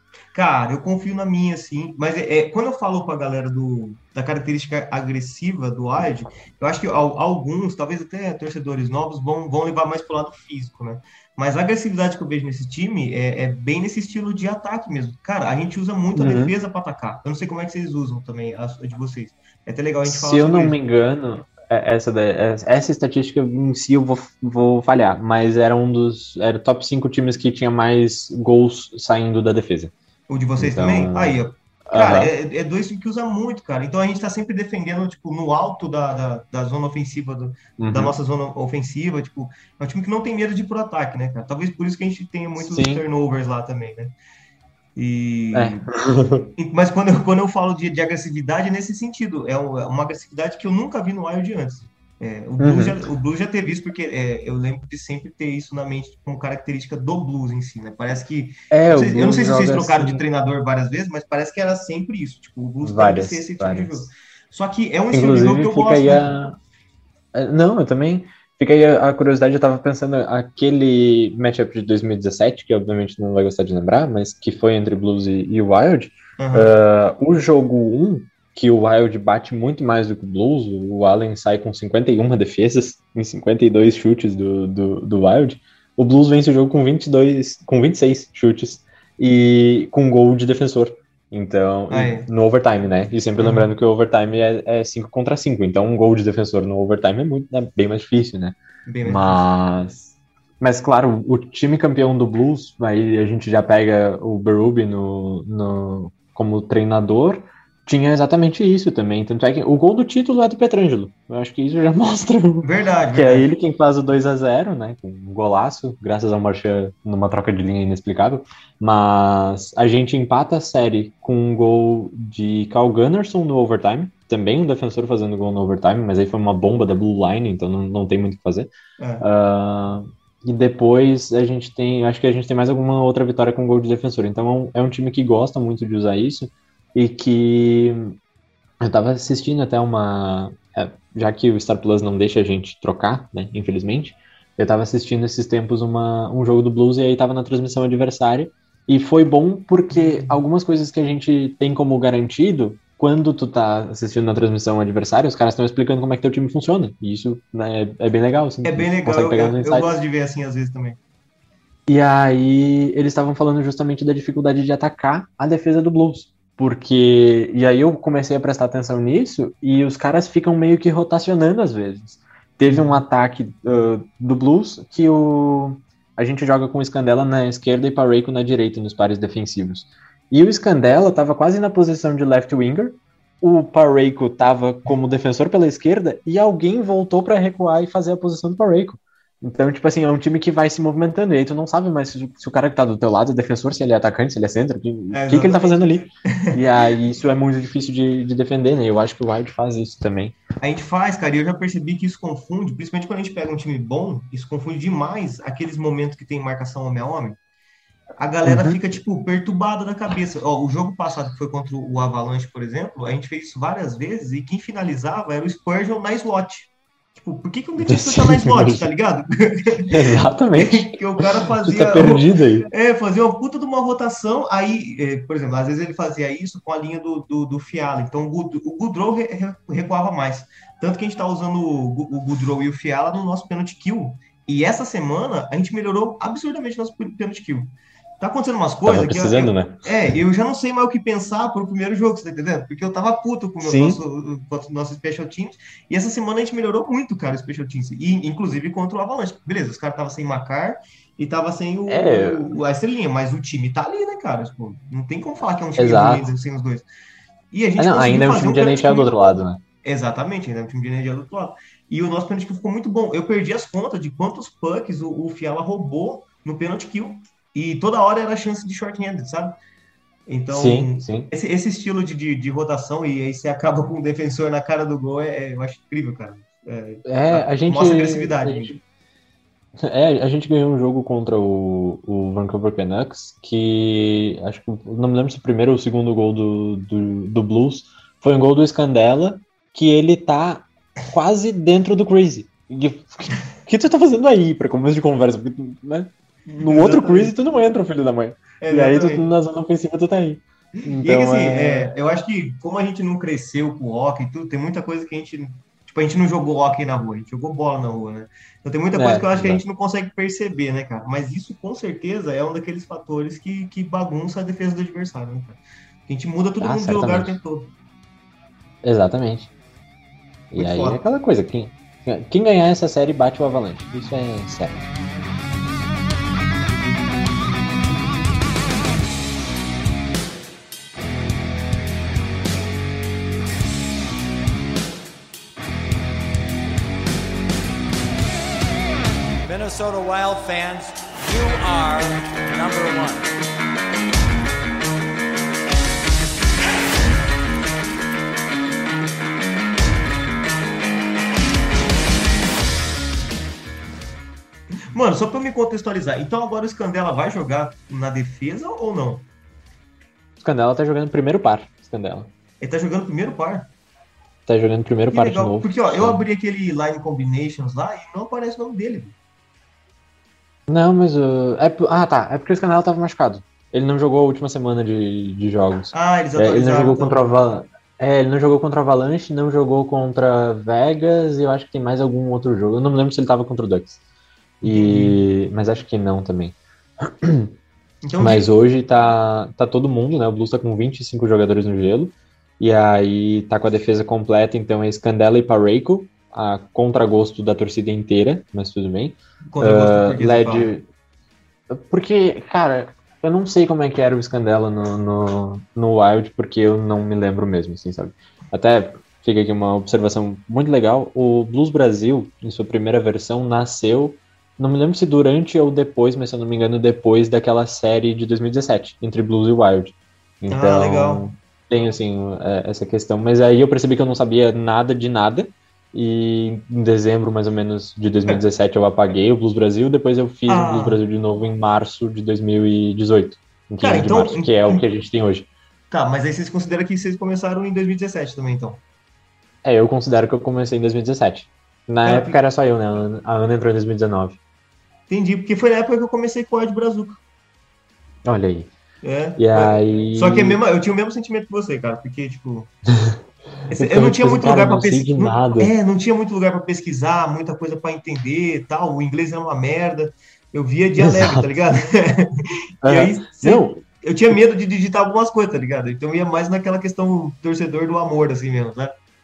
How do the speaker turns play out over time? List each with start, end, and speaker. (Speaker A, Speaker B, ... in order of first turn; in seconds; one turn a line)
Speaker A: 0.3-20.8
Speaker B: 16.1-16.5
Speaker B: 20.1-29.9
Speaker A: 30.3-44.1
Speaker B: 30.6-32.3
Speaker B: 37.8-38.2
Speaker B: 42.6-43.0
Speaker A: 45.0-45.9
Speaker B: 45.5-46.5
Speaker A: 46.5-66.2
Speaker B: 52.6-53.0
Speaker B: 58.7-60.2
Speaker B: 62.8-64.1
Speaker B: 65.1-66.6
Speaker B: 67.3-138.2
Speaker A: 76.4-76.7
Speaker A: 91.9-92.3
Speaker A: 93.4-93.7
Speaker A: 98.9-99.4
Speaker A: 112.6-113.5
Speaker A: 129.0-129.3
Speaker B: 138.8-160.0
Speaker A: 149.9-150.4
Speaker A: 158.6-161.0
Speaker B: 161.9-200.4
Speaker A: 195.1-196.6
Speaker A: 200.6-207.4
Speaker A: 208.2-220.0
Speaker B: 208.5-208.8
Speaker B: 217.9-218.9
Speaker B: 219.9-222.7
Speaker A: 220.6-256.9
Speaker B: 238.8-239.9
Speaker B: 243.6-244.0
Speaker B: 251.9-252.4
Speaker B: 255.8-256.3
Speaker A: 257.5-269.6
Speaker B: 257.8-259.6
Speaker A: 270.3-278.8
Speaker B: 270.5-271.3
Speaker B: 277.1-278.8
Speaker B: 279.8-301.9
Speaker A: 296.6-297.4
Speaker A: 298.6-299.3
Speaker A: 301.0-317.7
Speaker B: 309.0-309.6
Speaker B: 316.6-317.4
Speaker B: 318.8-319.5
Speaker B: 320.5-324.9
Speaker A: 320.6-321.0
Speaker C: 339.4-343.3
Speaker A: 354.9-359.3
Speaker B: 360.4-362.3
Speaker A: 362.6-363.7
Speaker B: 364.5-366.2
Speaker A: 365.1-369.2
Speaker B: 370.7-384.0
Speaker A: 375.9-377.3
Speaker A: 384.6-385.2
Speaker B: 384.6-387.5
Speaker A: 388.1-388.5
Speaker B: 388.2-400.9
Speaker A: 399.5-400.7
Speaker B: 401.7-435.5
Speaker A: 420.5-421.3
Speaker A: 430.5-431.0
Speaker A: 433.8-434.8
Speaker A: 435.9-438.8
Speaker B: 439.6-444.4
Speaker A: 442.1-442.4
Speaker A: 445.1-447.2
Speaker B: 448.3-448.7
Speaker A: 449.0-452.7
Speaker B: 449.4-450.6
Speaker A: 453.7-462.3
Speaker B: 453.8-455.7
Speaker B: 461.0-461.5
Speaker B: 462.8-463.8
Speaker A: 462.8-469.0